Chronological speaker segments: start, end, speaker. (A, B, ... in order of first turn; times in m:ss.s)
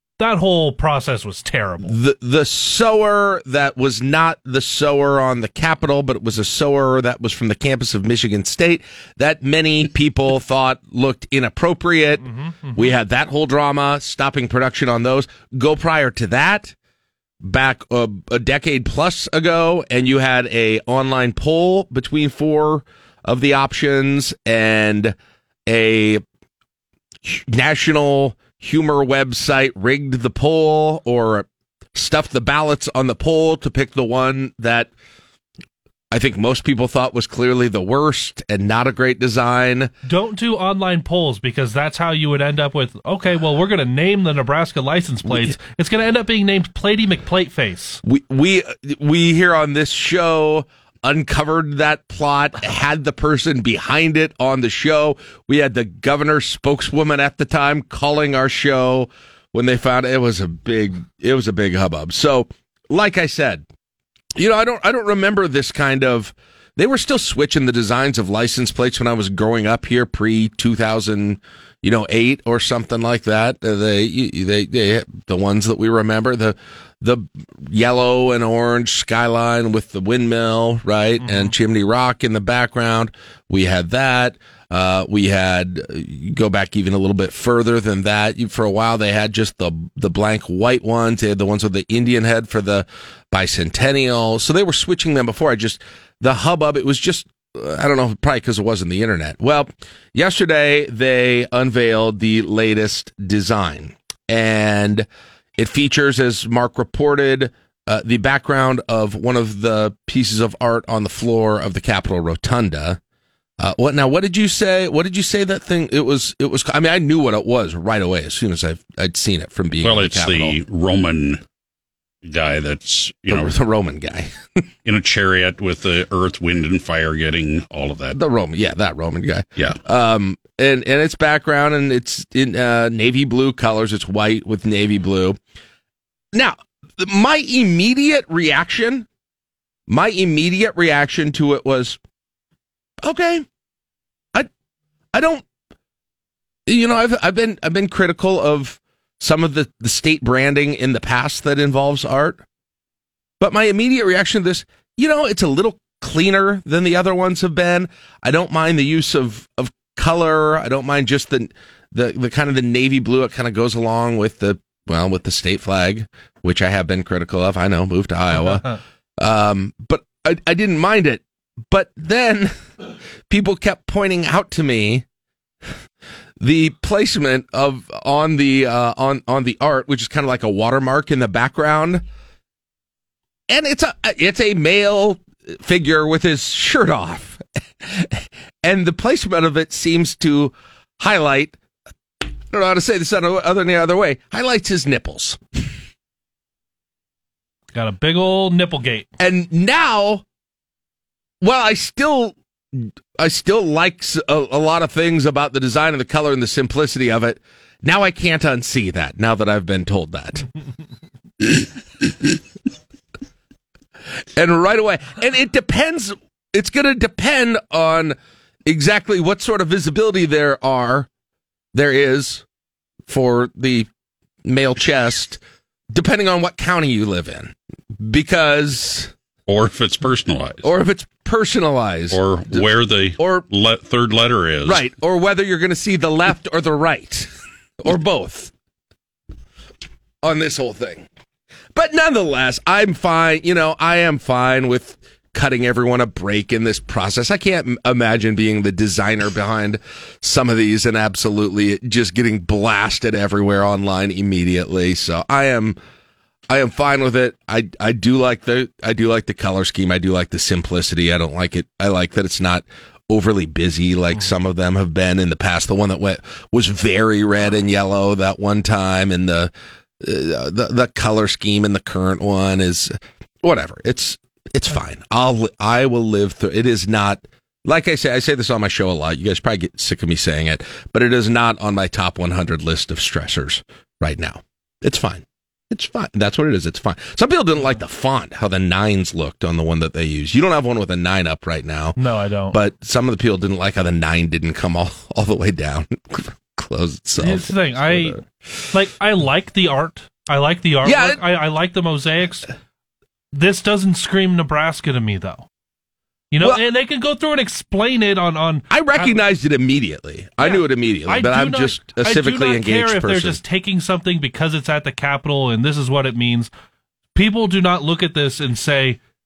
0:00.2-0:02.0 A
0:01.8-0:16.8 B
0:12.2-0:13.0 A
0:17.4-0:25.2 B
0:25.7-0:26.2 B
0:27.2-0:34.9 B
0:36.1-0:39.9 B
0:40.1-0:48.0 A
0:45.3-0:45.6 B
0:48.0-1:03.7 B
1:04.4-1:45.1 B
1:21.2-1:21.5 A
1:45.6-1:53.0 B
1:53.6-2:00.6 B
1:59.8-2:01.4 C
2:02.2-2:03.6 C
2:03.3-2:04.3 B
2:04.9-2:08.2 C
2:08.1-2:15.4 B
2:16.3-2:19.1 B
2:19.9-2:22.0 B
2:23.0-2:23.4 B
2:25.1-2:25.4 B
2:26.7-2:32.4 B
2:33.4-2:52.5 B
2:53.3-2:55.0 B
2:56.4-3:02.0 B
3:03.5-3:11.6 B
3:12.5-3:15.4 B
3:17.7-3:19.1 A
3:19.2-3:20.2 B
3:21.4-3:30.5 B
3:34.4-3:41.1 B
3:41.7-3:42.4 B
3:43.1-3:43.9 B
3:44.4-3:45.4 B
3:45.9-3:49.1 B
3:49.5-3:50.6 C
3:50.6-3:53.4 B
3:52.1-3:54.9 C
3:54.6-3:57.3 B
3:57.8-3:58.5 B
4:00.2-4:01.1 B
4:01.7-4:15.8 B
4:16.5-4:52.0 B
4:52.0-4:52.6 A
4:52.5-4:58.2 B
4:57.2-5:02.5 A
5:00.8-5:01.2 B
5:03.3-5:05.5 A
5:06.3-5:09.2 A
5:08.7-5:13.4 B
5:10.4-5:16.5 A
5:17.2-5:19.0 A